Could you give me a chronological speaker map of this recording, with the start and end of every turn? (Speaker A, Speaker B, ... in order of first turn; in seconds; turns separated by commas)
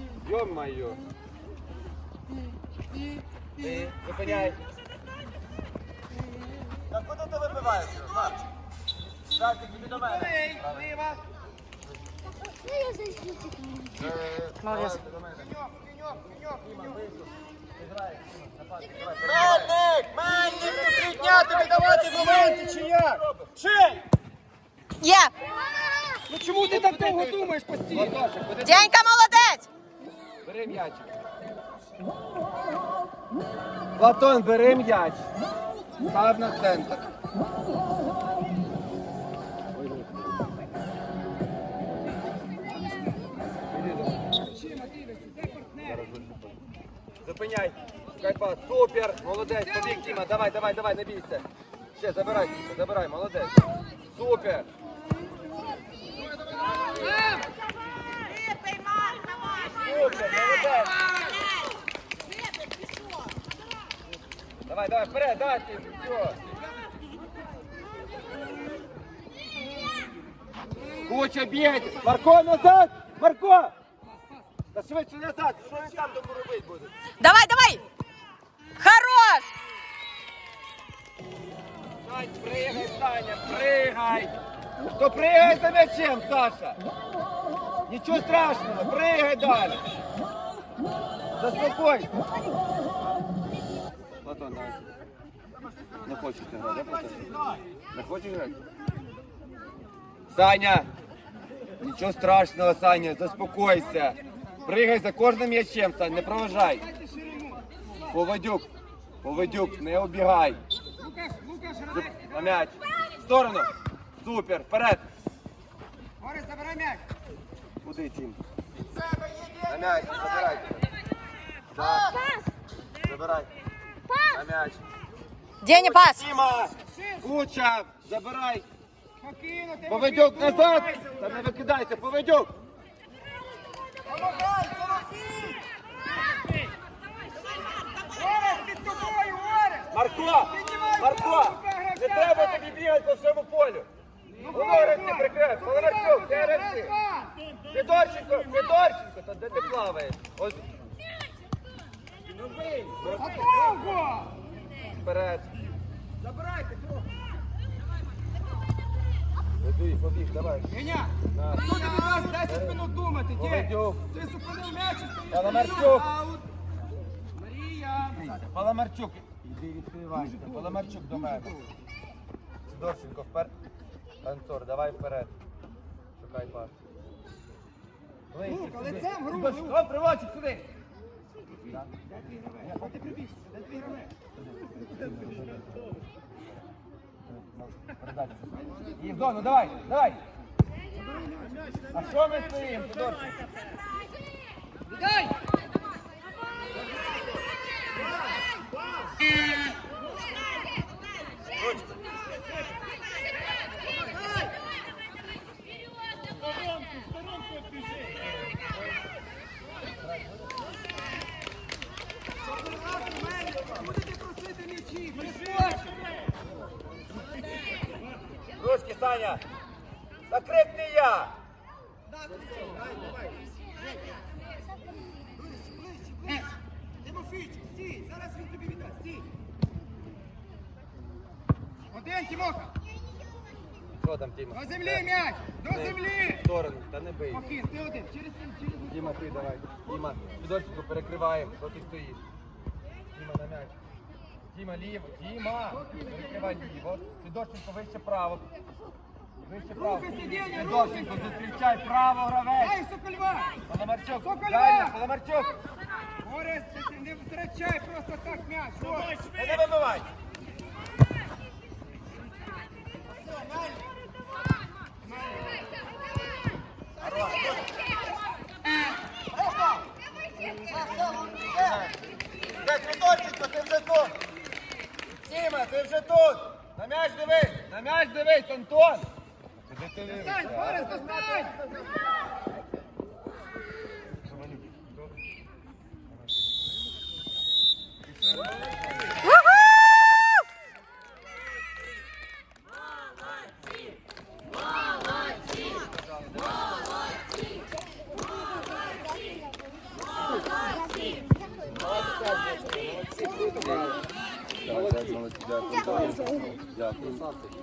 Speaker A: 0.2-1.0, Speaker A: 3.6-4.6, Speaker A: 6.9-8.4, Speaker A: 9.3-10.9, Speaker B: 10.1-11.2, Speaker C: 12.6-13.9, Speaker A: 13.9-15.5, Speaker D: 14.6-15.0, Speaker B: 15.6-16.5, Speaker A: 16.6-23.5, Speaker B: 20.5-22.9, Speaker B: 23.7-24.0, Speaker D: 25.0-25.3, Speaker B: 26.1-28.1, Speaker A: 26.7-28.9, Speaker D: 28.6-29.7, Speaker A: 30.4-31.1, Speaker A: 34.0-35.2, Speaker A: 36.0-37.1, Speaker A: 39.8-40.1, Speaker A: 43.7-44.5, Speaker B: 44.5-45.8, Speaker A: 45.8-46.6, Speaker A: 47.2-54.7, Speaker B: 57.0-57.4, Speaker A: 59.7-61.0, Speaker A: 64.7-66.4, Speaker A: 71.1-73.7, Speaker A: 74.7-76.9, Speaker D: 77.2-77.8, Speaker D: 78.8-79.5, Speaker A: 82.0-84.3, Speaker A: 85.0-86.8, Speaker A: 87.9-89.8, Speaker A: 91.4-92.1, Speaker A: 94.2-94.8, Speaker A: 96.0-97.3, Speaker A: 97.9-98.6, Speaker A: 100.3-100.9, Speaker A: 101.8-106.9, Speaker B: 106.8-107.6, Speaker A: 108.1-108.7, Speaker A: 109.2-110.6, Speaker B: 111.0-112.3, Speaker A: 111.9-115.0, Speaker B: 116.2-117.0, Speaker A: 117.8-118.4, Speaker B: 119.2-120.6, Speaker A: 119.7-120.8, Speaker A: 121.7-122.2, Speaker C: 122.1-122.4, Speaker A: 123.0-123.5, Speaker A: 124.3-124.8, Speaker D: 125.6-126.2, Speaker A: 125.7-128.7, Speaker B: 129.2-131.1, Speaker A: 129.9-132.5, Speaker B: 134.1-135.6, Speaker B: 138.1-142.7, Speaker A: 139.9-143.9, Speaker B: 144.4-147.3, Speaker A: 144.4-146.9, Speaker A: 147.7-150.7, Speaker A: 153.0-153.5, Speaker B: 153.2-154.3, Speaker A: 154.9-155.5, Speaker A: 159.6-160.7, Speaker B: 160.7-166.4, Speaker A: 161.3-161.8, Speaker A: 162.3-162.8, Speaker A: 163.3-164.1, Speaker A: 165.3-166.1, Speaker B: 167.6-168.2, Speaker A: 168.1-171.6, Speaker B: 170.4-170.9, Speaker A: 172.7-173.5, Speaker A: 174.2-175.3, Speaker A: 176.2-176.7, Speaker A: 178.3-180.7, Speaker B: 178.5-179.7, Speaker A: 182.6-183.2, Speaker A: 184.8-185.8, Speaker A: 187.3-190.2, Speaker A: 191.9-193.3, Speaker B: 213.5-216.0, Speaker A: 218.6-219.4, Speaker A: 220.3-221.3, Speaker B: 227.5-229.2, Speaker B: 231.9-232.7, Speaker A: 234.0-235.1, Speaker B: 234.6-236.4, Speaker A: 235.6-237.5, Speaker B: 237.4-238.9, Speaker A: 238.9-242.2, Speaker A: 243.1-243.7, Speaker A: 244.5-248.4, Speaker A: 249.4-252.8, Speaker B: 249.8-251.3, Speaker B: 252.6-253.6, Speaker A: 253.7-255.6, Speaker B: 254.2-254.9, Speaker B: 256.2-259.2, Speaker A: 259.2-260.1, Speaker A: 267.0-267.6, Speaker A: 271.2-271.9, Speaker A: 272.6-274.2, Speaker A: 275.2-279.1, Speaker A: 279.7-281.1, Speaker B: 280.5-281.6, Speaker A: 284.3-284.9, Speaker A: 295.8-296.6, Speaker C: 299.2-299.5, Speaker C: 300.7-301.3, Speaker B: 303.1-303.9, Speaker A: 303.2-303.9, Speaker A: 304.6-307.2